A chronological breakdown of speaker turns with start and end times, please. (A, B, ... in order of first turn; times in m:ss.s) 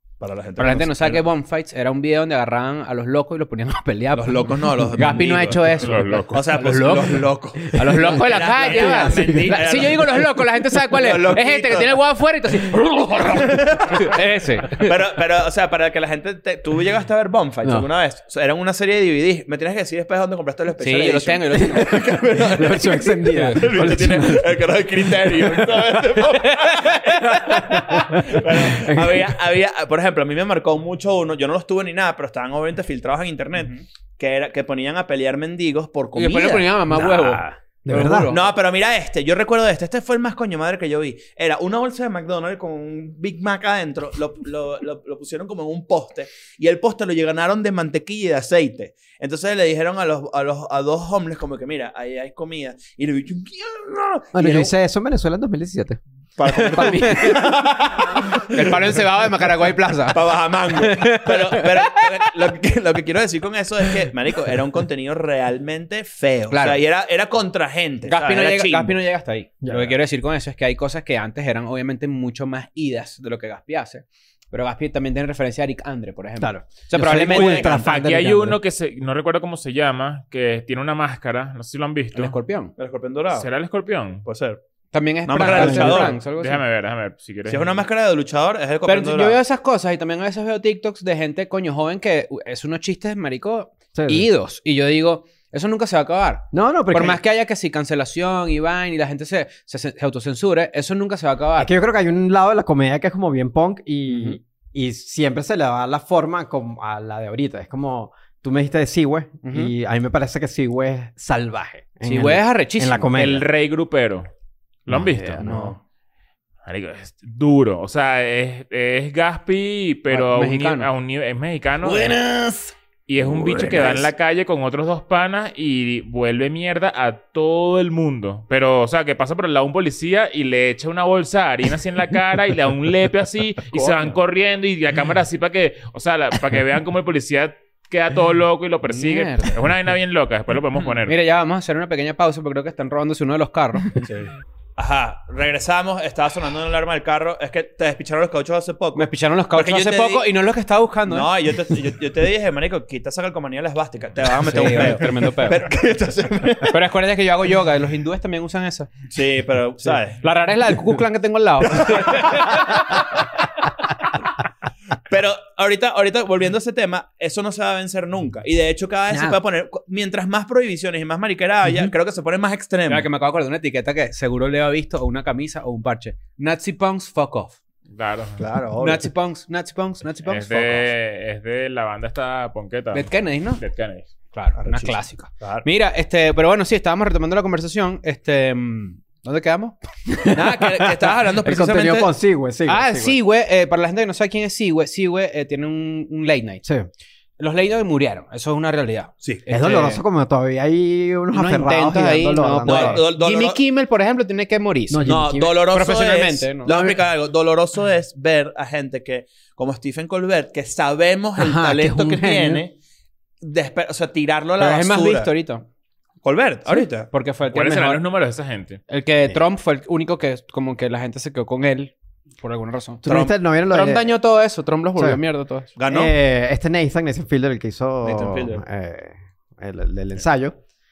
0:00.2-0:01.2 A
0:00.6-0:15.0 B
0:04.2-0:05.7 A
0:05.8-0:06.4 C
0:06.3-0:12.0 A
0:09.1-0:09.6 D
0:13.2-0:14.2 A
0:14.8-0:36.7 A
0:20.8-0:22.1 B
0:21.7-0:26.0 D
0:23.3-0:24.1 B
0:26.3-0:28.0 B
0:27.3-0:29.4 D
0:36.1-0:38.5 B
0:36.9-0:38.3 D
0:38.3-0:54.7 A
0:54.3-0:56.0 D
0:56.4-0:59.0 A
0:56.5-0:57.5 B
0:56.5-0:57.5 D
0:58.4-1:02.3 B
1:00.1-1:09.0 A
1:06.5-1:06.8 B
1:08.0-1:17.7 B
1:09.6-1:10.0 D
1:16.4-1:18.6 D
1:17.1-1:17.9 A
1:17.5-1:22.3 C
1:22.1-1:22.7 B
1:22.8-1:23.5 A
1:23.3-1:24.2 C
1:24.2-1:24.6 A
1:24.9-1:26.6 B
1:25.2-1:26.2 A
1:25.4-1:26.1 D
1:26.3-1:27.8 C
1:27.5-1:29.4 A
1:28.8-1:41.7 B
1:33.9-1:34.3 D
1:36.5-1:37.2 D
1:41.6-1:53.5 D
1:44.1-1:44.4 B
1:49.4-1:49.7 B
1:52.0-1:53.2 B
1:53.1-1:54.3 C
1:54.8-1:55.4 C
1:54.9-1:55.7 D
1:55.4-1:55.8 B
1:56.6-2:02.2 C
2:00.1-2:00.9 B
2:01.8-2:02.7 B
2:03.1-2:21.2 C
2:03.2-2:04.1 A
2:13.7-2:14.2 A
2:18.9-2:19.6 B
2:21.0-2:24.0 B
2:24.0-2:30.2 A
2:28.9-2:31.3 B
2:31.1-2:36.8 A
2:34.2-2:35.7 B
2:36.7-2:39.1 B
2:39.1-2:40.2 A
2:39.8-2:43.2 B
2:41.7-2:42.7 A
2:45.1-2:53.1 A
2:49.1-2:49.4 D
2:52.8-2:57.6 B
2:57.9-2:58.4 C
2:58.4-2:59.1 A
2:58.8-3:00.8 B
3:00.2-3:04.1 C
3:02.9-3:03.6 B
3:04.3-3:09.8 B
3:04.6-3:05.6 A
3:10.1-3:13.2 D
3:10.3-3:12.1 A
3:12.7-3:16.6 B
3:16.6-3:16.9 D
3:17.4-3:20.0 B
3:19.5-3:23.0 D
3:21.3-3:26.7 B
3:22.6-3:23.6 A
3:24.9-3:25.7 D
3:25.0-3:32.7 A
3:26.7-3:27.0 D
3:31.4-3:32.6 D
3:33.4-3:35.3 A
3:34.6-3:35.6 B
3:36.2-3:37.1 A
3:37.0-3:38.0 B
3:37.5-3:38.8 C
3:38.9-3:43.0 B
3:43.0-3:44.1 D
3:43.0-3:43.3 A
3:43.7-3:45.7 B
3:45.8-3:46.1 A
3:45.8-3:50.6 D
3:48.0-3:48.6 A